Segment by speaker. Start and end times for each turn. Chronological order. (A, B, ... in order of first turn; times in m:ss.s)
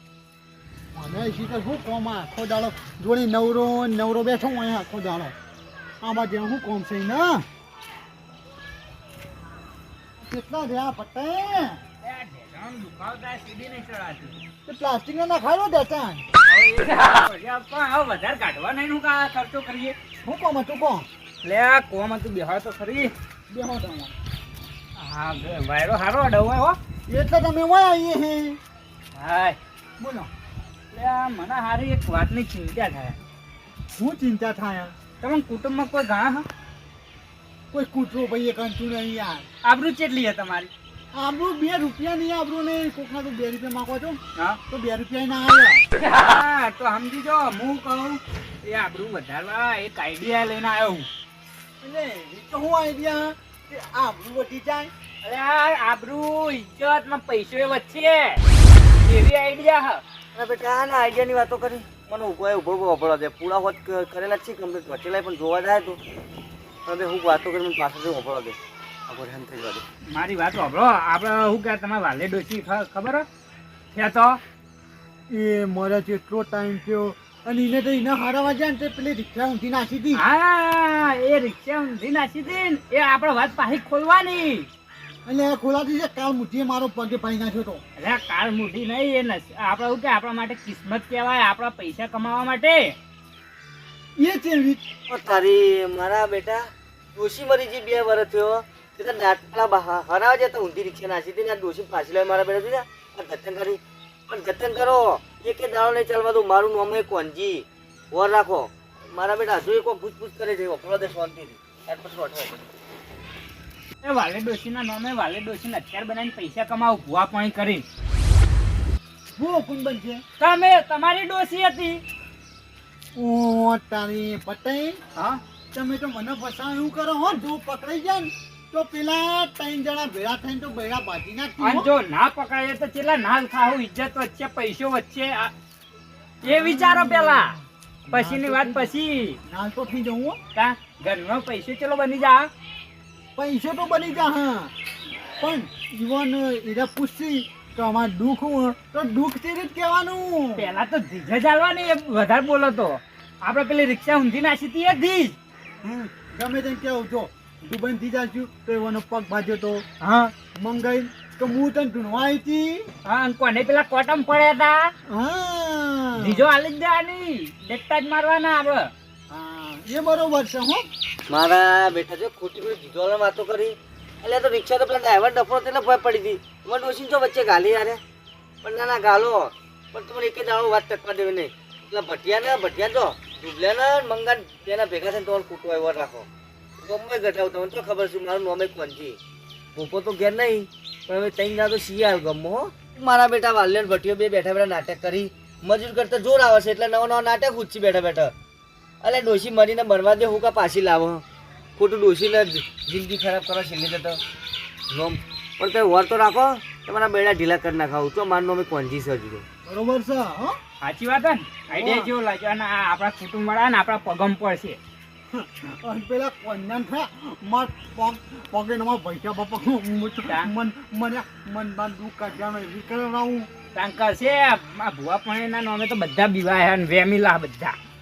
0:00.9-0:05.4 A
0:06.0-0:07.5 A
0:10.2-0:11.8 A
0:12.0-0:14.4 B
0:14.7-0:16.2 A
0:16.5-0:20.0 B
0:20.2-0:21.1 A
0:21.4-0:23.1 B
0:23.5-0:24.1 A
0:25.0-0:26.8 B
0:27.1-0:28.6 A
0:29.2-0:29.6 B
0:30.0-0:30.3 A
0:30.9-0:33.2 B
0:34.0-0:34.9 A
0:35.2-0:36.5 B
0:37.7-0:39.5 A
0:39.6-0:40.7 B
0:41.1-0:45.8 A
0:46.0-0:51.1 B
0:51.8-0:54.9 A
0:55.2-0:58.4 B
0:59.1-1:00.0 B
1:00.4-1:06.0 C
1:06.9-1:08.6 C
1:09.1-1:09.8 C
1:10.1-1:13.2 B
1:13.9-1:14.4 B
1:15.3-1:20.2 A
1:20.2-1:24.7 B
1:25.2-1:27.8 A
1:28.0-1:33.0 B
1:34.2-1:34.9 A
1:35.1-1:52.6 C
1:54.0-1:57.8 B
1:59.4-2:00.2 A
2:00.4-2:02.0 B
2:03.2-2:05.0 A
2:05.7-2:11.9 A
2:11.6-2:15.5 B
2:16.4-2:17.6 B
2:16.4-2:17.6 A
2:18.1-2:20.4 A
2:18.1-2:19.4 B
2:20.6-2:22.5 B
2:23.4-2:24.7 A
2:25.4-2:30.7 A
2:30.6-2:35.4 B
2:35.8-2:39.8 A
2:40.0-2:40.3 B
2:40.6-2:42.9 A
2:43.1-2:44.9 B
2:45.1-2:46.4 A
2:46.2-2:48.9 B
2:49.3-2:50.8 A
2:51.3-2:58.0 C
2:58.6-3:06.3 C
3:06.8-3:09.2 C
3:09.8-3:18.3 C
3:19.0-3:21.2 C
3:21.8-3:24.2 C
3:24.9-3:29.4 C
3:29.6-3:30.6 A
3:30.8-3:34.8 B
3:31.7-3:32.1 A
3:35.3-3:43.5 A
3:43.7-3:47.8 B